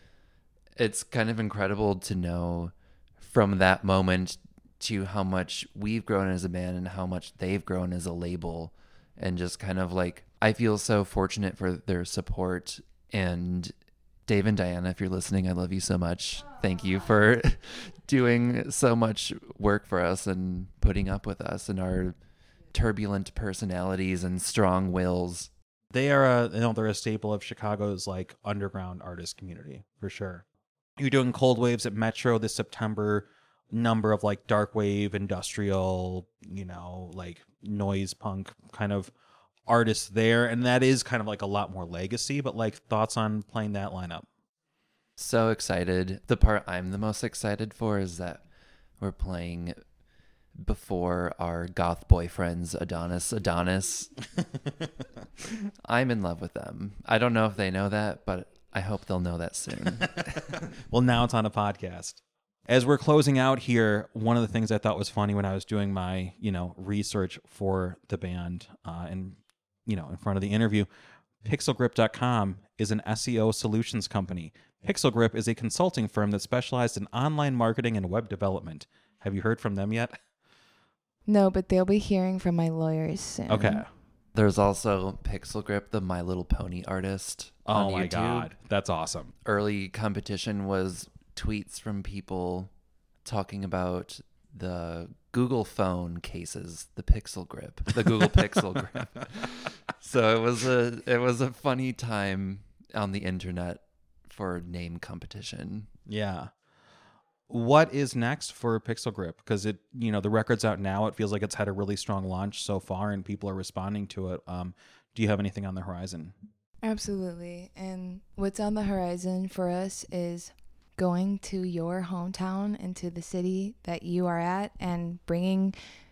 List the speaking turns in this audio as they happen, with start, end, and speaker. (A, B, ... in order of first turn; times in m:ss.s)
0:00.8-0:13.7 A
0:14.2-0:22.2 A
0:22.7-0:25.5 A
0:25.9-0:30.4 B
0:31.0-0:39.1 B
0:39.7-0:44.2 B
0:45.2-0:48.4 A
0:49.0-0:49.7 A
0:50.6-0:54.1 A
0:55.8-1:00.5 A
1:00.7-1:10.9 B
1:11.4-1:20.2 B
1:21.3-1:23.8 C
1:23.5-1:23.9 B
1:24.3-1:28.5 A
1:27.6-1:29.3 B
1:29.4-1:32.7 A
1:33.2-1:45.9 A
1:46.1-1:46.5 B
1:47.5-1:56.3 B
1:56.8-2:05.8 C